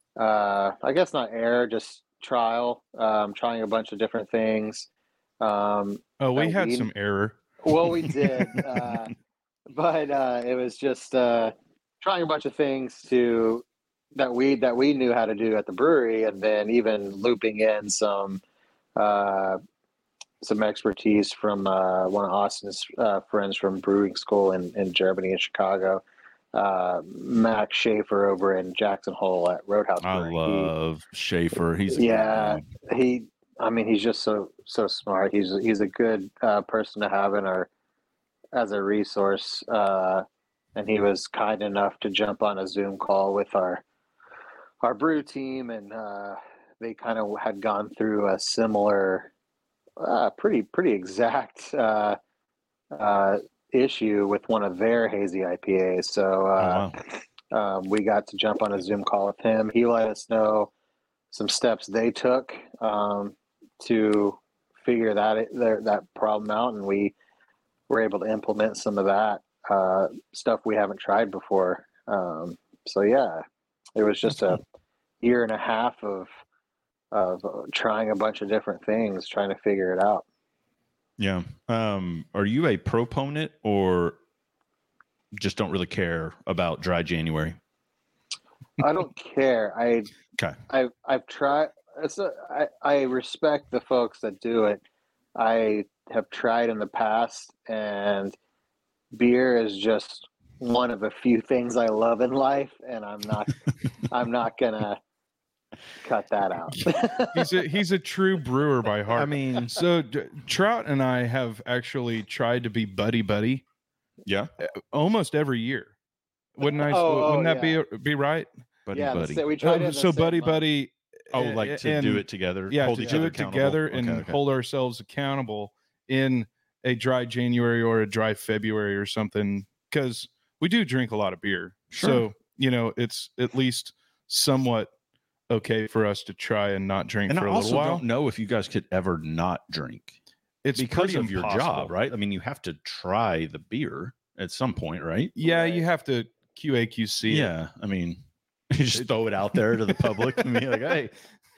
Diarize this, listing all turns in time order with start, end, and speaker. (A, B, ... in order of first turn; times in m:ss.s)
0:00.2-0:04.9 A
0:05.4-0:06.9 A
0:06.2-0:07.4 B
0:07.6-0:09.1 A
0:09.7-0:18.4 A
0:19.0-0:19.6 A
0:20.4-0:30.7 A
0:30.0-0:32.7 C
0:31.9-0:37.7 A
0:38.5-0:43.8 A
0:44.8-0:49.3 A
0:50.0-0:52.2 A
0:52.9-0:57.0 A
0:56.6-0:57.0 C
0:57.5-1:00.7 A
1:01.3-1:07.2 A
1:07.9-1:13.4 A
1:14.0-1:14.6 A
1:15.2-1:16.3 A
1:17.1-1:20.2 A
1:21.2-1:24.2 C
1:25.3-1:27.6 C
1:28.8-1:30.1 A
1:30.7-1:34.8 A
1:35.4-1:38.4 A
1:39.1-1:45.0 A
1:46.0-1:47.5 A
1:47.3-1:53.6 B
1:49.1-1:49.8 C
1:54.2-1:54.5 C
1:54.6-1:55.9 B
1:56.6-1:58.5 B
1:56.6-1:57.8 A
1:58.9-1:59.4 C
1:58.9-2:00.6 A
1:59.6-2:14.9 B
2:01.3-2:04.4 C
2:11.9-2:12.3 C
2:15.5-2:18.0 B
2:17.3-2:20.2 C
2:20.6-2:21.9 B
2:20.8-2:25.3 C
2:25.4-2:27.5 B
2:25.4-2:25.8 A
2:27.3-2:31.1 C